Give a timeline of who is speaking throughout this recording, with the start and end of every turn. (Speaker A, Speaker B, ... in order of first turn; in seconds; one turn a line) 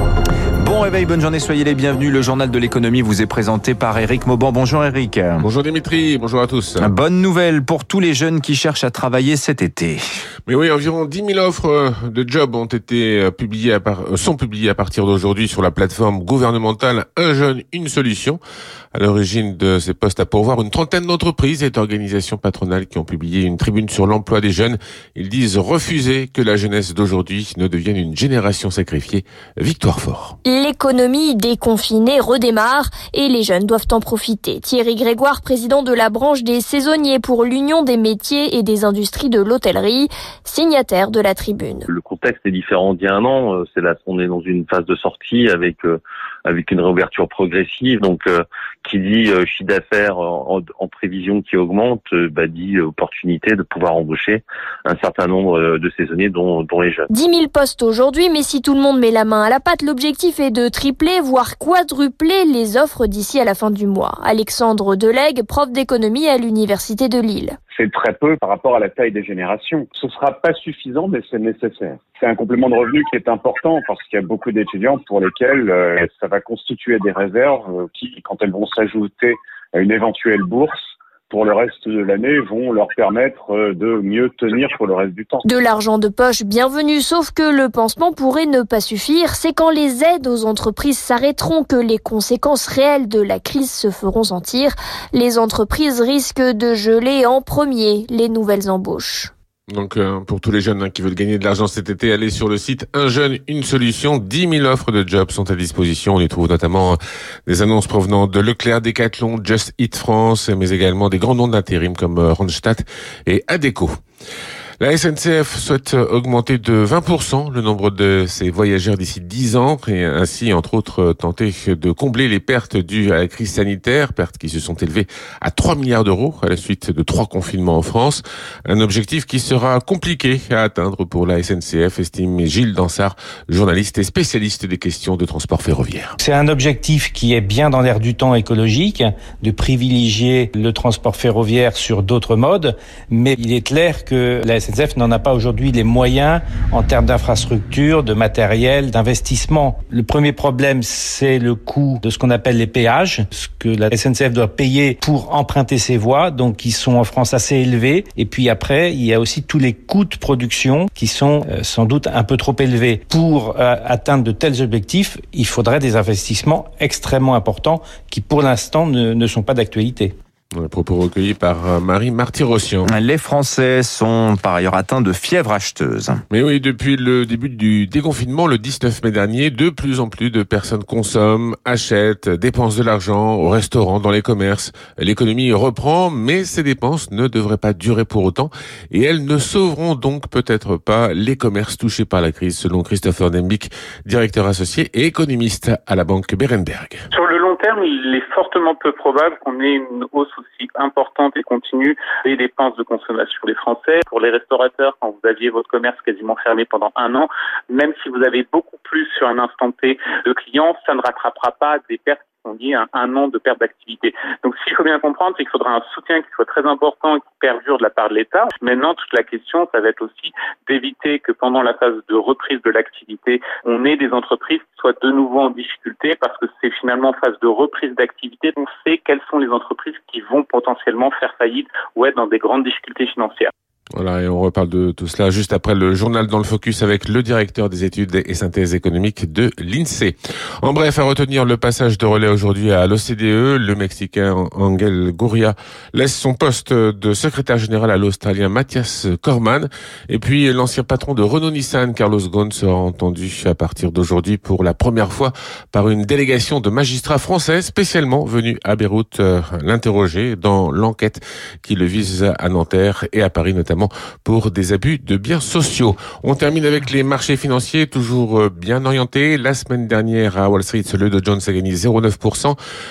Speaker A: 0.6-5.4
Speaker B: 5.4-6.9
Speaker A: 6.8-10.0
Speaker B: 10.5-18.4
Speaker B: 18.9-30.4
Speaker C: 30.5-41.9
Speaker D: 41.9-45.9
Speaker D: 46.5-57.0
Speaker C: 57.1-67.6
Speaker E: 67.7-80.8
Speaker E: 81.3-85.4
Speaker C: 85.4-99.3
Speaker B: 99.7-113.9
Speaker B: 114.8-136.2
Speaker F: 136.2-170.2
Speaker B: 170.5-172.9
Speaker A: 172.9-176.2
Speaker B: 176.3-197.1
Speaker G: 197.1-233.5
Speaker B: 233.9-272.6